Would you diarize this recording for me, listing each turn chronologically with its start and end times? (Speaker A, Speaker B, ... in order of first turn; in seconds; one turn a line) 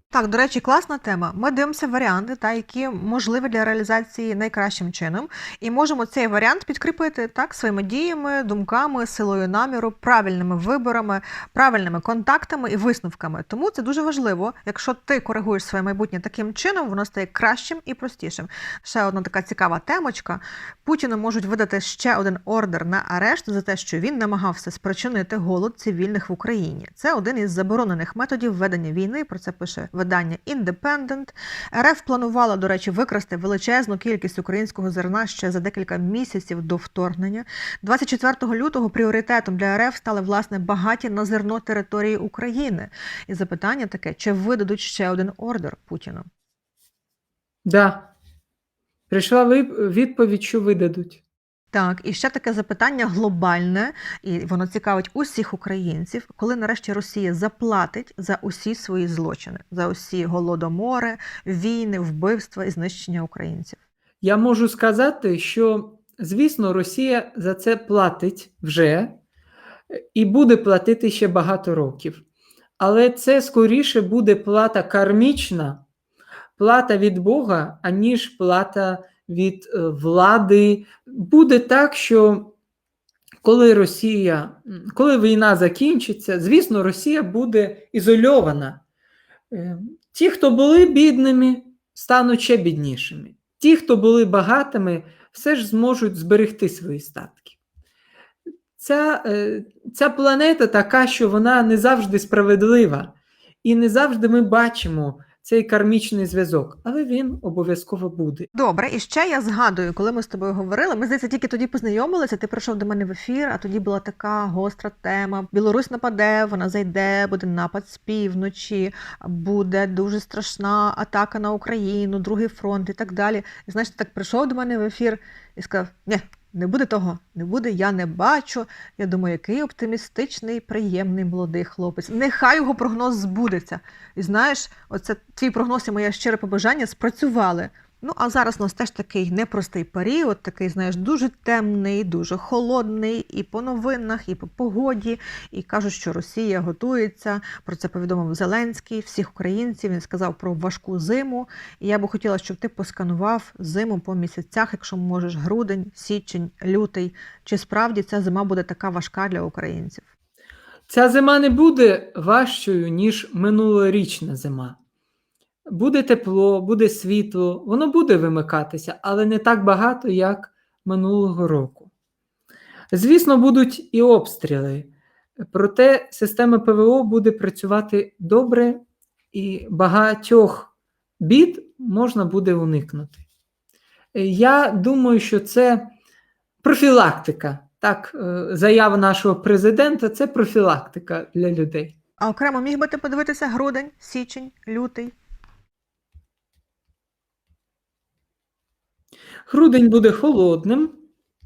Speaker A: 0.1-46.3
Speaker B: 47.6-48.1
Speaker B: 49.1-51.2
Speaker A: 51.7-63.8
Speaker B: 64.2-69.2
Speaker B: 69.9-72.2
Speaker B: 72.8-75.8
Speaker B: 76.6-82.5
Speaker B: 83.4-88.8
Speaker B: 89.5-97.6
Speaker B: 98.8-108.5
Speaker A: 108.5-160.1
Speaker B: 160.9-164.8
Speaker B: 165.7-171.9
Speaker B: 172.9-174.9
Speaker B: 175.5-178.8
Speaker B: 179.3-183.2
Speaker B: 184.1-185.9
Speaker B: 186.6-191.9
Speaker A: 192.2-195.1
Speaker B: 199.5-201.0